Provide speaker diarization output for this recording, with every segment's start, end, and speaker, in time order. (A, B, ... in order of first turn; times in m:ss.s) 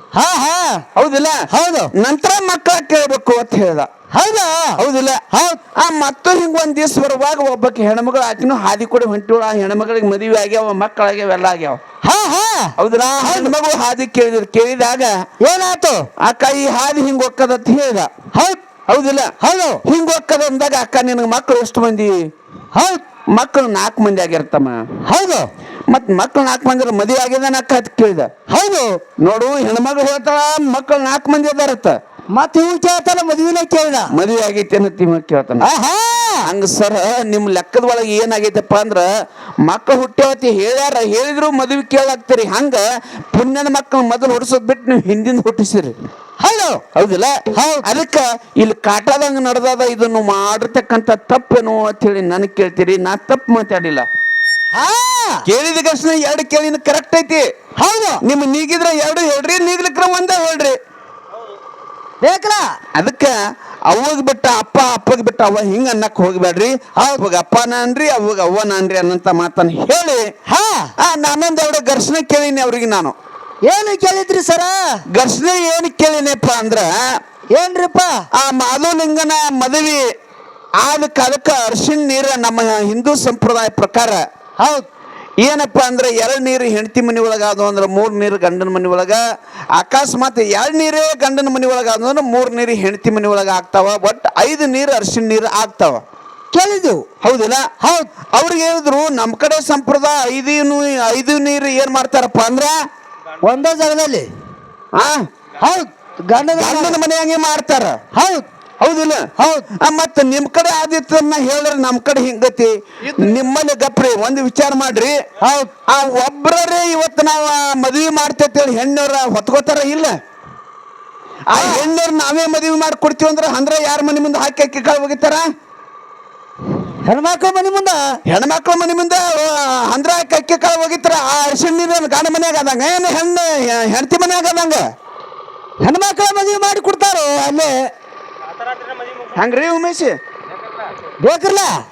0:00.1-0:00.8 A
0:01.0-0:01.4 B
0:01.5-0:01.9 A
0:02.0-0:03.9 B
0:04.1-0:04.8 A
0:04.8-0:05.2 B
0:05.3-0:05.6 A
0:05.8-0:11.8 B
0:12.0-0:13.5 A
0:12.8-0:15.1 B
0:15.4-0:16.1 A
0:16.2-0:18.1 B
0:18.3-0:18.6 A
0:18.9-0:19.3 B
0:19.4-0:19.8 A
0:19.9-0:22.2 B
0:22.7-0:23.0 A
0:23.4-0:24.8 B
0:25.1-0:25.5 A
0:25.9-0:28.3 B
0:28.5-0:29.0 A
0:29.2-0:31.9 B
0:32.3-0:34.1 A
0:34.1-0:35.7 B
0:35.6-0:36.4 A
0:36.4-0:39.1 B
0:39.7-0:45.9 B
0:46.4-0:46.8 A
0:47.0-0:54.0 B
0:47.5-0:47.8 A
0:54.8-0:55.4 A
0:55.5-0:57.5 B
0:57.8-0:58.2 A
0:58.2-1:00.8 B
1:02.2-1:02.7 A
1:03.0-1:03.3 B
1:03.9-1:10.3 B
1:07.0-1:07.2 A
1:10.5-1:10.9 A
1:11.0-1:13.2 B
1:13.7-1:14.8 A
1:15.1-1:16.9 B
1:17.5-1:18.1 A
1:18.4-1:20.0 B
1:20.8-1:24.2 B
1:24.6-1:24.9 A
1:25.4-1:29.2 B
1:29.8-1:36.0 B
1:36.5-1:37.0 A
1:37.2-1:37.6 B
1:37.8-1:38.1 A
1:38.4-1:42.7 B
1:43.4-1:44.3 A
1:45.6-1:47.0 A
1:46.5-1:48.0 B
1:48.2-1:48.5 A
1:48.8-1:49.3 B
1:49.4-1:49.7 A
1:49.8-1:55.1 B
1:55.4-1:55.7 A
1:55.9-2:00.1 B
2:01.5-2:05.4 B
2:01.6-2:01.9 A
2:07.1-2:08.0 A
2:08.3-2:14.8 B
2:15.8-2:17.9 A
2:19.4-2:20.2 B
2:21.2-2:21.7 A